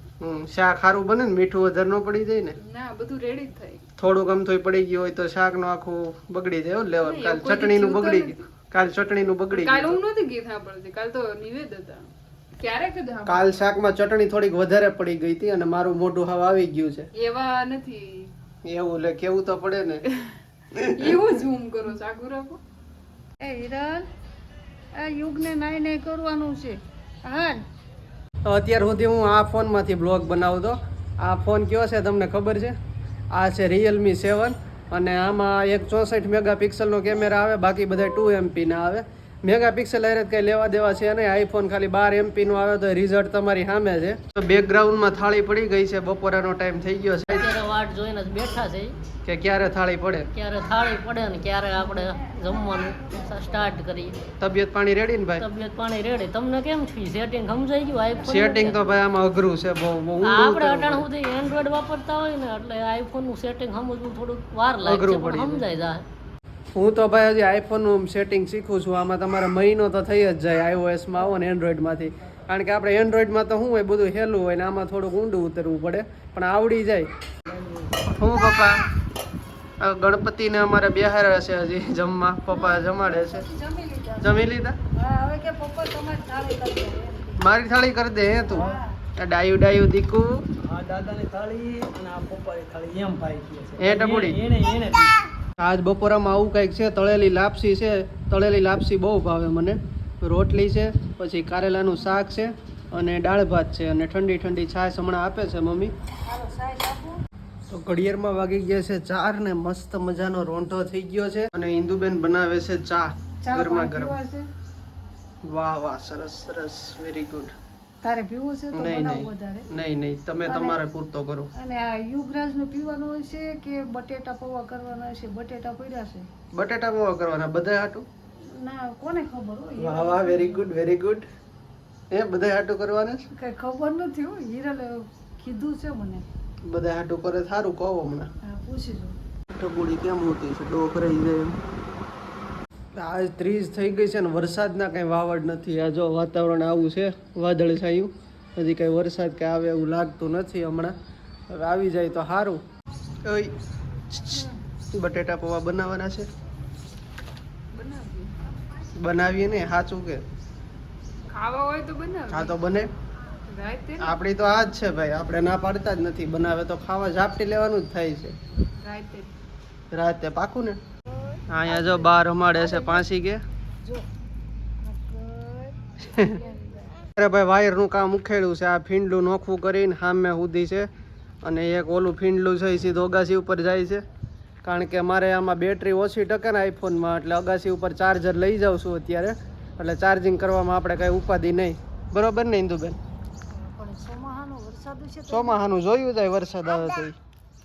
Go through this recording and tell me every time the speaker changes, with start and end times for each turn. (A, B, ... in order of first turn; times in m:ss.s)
0:00.2-0:02.6 A
0:02.6-0:03.8 B
0:04.0-0:10.0 A
0:07.0-0:08.4 B
0:09.5-0:12.1 B
0:12.6-0:13.5 B
0:13.3-0:17.1 A
0:17.2-0:18.3 B
0:18.7-0:20.0 A
0:20.8-0:21.2 A
0:21.0-0:22.6 B
0:23.4-0:24.1 C
0:25.0-0:27.6 C
0:28.5-0:32.8 A
0:33.3-0:47.5 A
0:47.3-0:49.0 D
0:49.2-0:50.3 A
0:50.3-0:54.2 D
0:51.7-0:53.7 C
0:54.4-0:55.4 A
0:55.4-0:58.9 D
0:58.2-1:01.1 A
1:00.2-1:06.0 D
1:04.8-1:05.6 A
1:06.7-1:17.1 A
1:18.1-1:18.8 A
1:19.8-1:23.5 A
1:22.5-1:24.4 C
1:24.2-1:24.8 A
1:25.0-1:27.5 C
1:27.4-1:30.3 A
1:28.3-1:29.0 C
1:30.6-1:35.1 E
1:33.8-1:34.4 A
1:35.6-1:45.9 A
1:46.3-1:47.2 C
1:47.7-1:54.2 A
1:53.4-1:54.5 C
1:55.5-1:57.5 A
1:58.0-1:59.7 C
1:58.7-2:01.5 A
2:00.4-2:00.8 C
2:01.6-2:06.3 C
2:06.5-2:08.0 A
2:08.5-2:10.7 C
2:09.8-2:11.2 A
2:12.1-2:13.2 A
2:13.4-2:16.2 C
2:16.6-2:18.3 A
2:18.4-2:19.2 C
2:19.6-2:21.6 A
2:23.0-2:30.9 A
2:31.5-2:32.6 A
2:33.2-2:33.5 A
2:34.1-2:36.3 A
2:37.7-2:38.4 B
2:39.0-2:40.2 A
2:41.3-2:42.5 B
2:42.3-2:42.9 A
2:43.5-2:44.2 B
2:44.0-2:48.4 A
2:48.8-2:49.3 B
2:49.9-2:50.8 A
2:51.5-2:53.4 A
2:51.6-2:53.0 C
2:54.8-2:57.0 C
2:56.1-2:56.4 A
2:57.2-3:00.9 A
3:01.4-3:04.0 A
3:04.6-3:13.0 A
3:13.5-3:15.6 C
3:15.3-3:17.2 A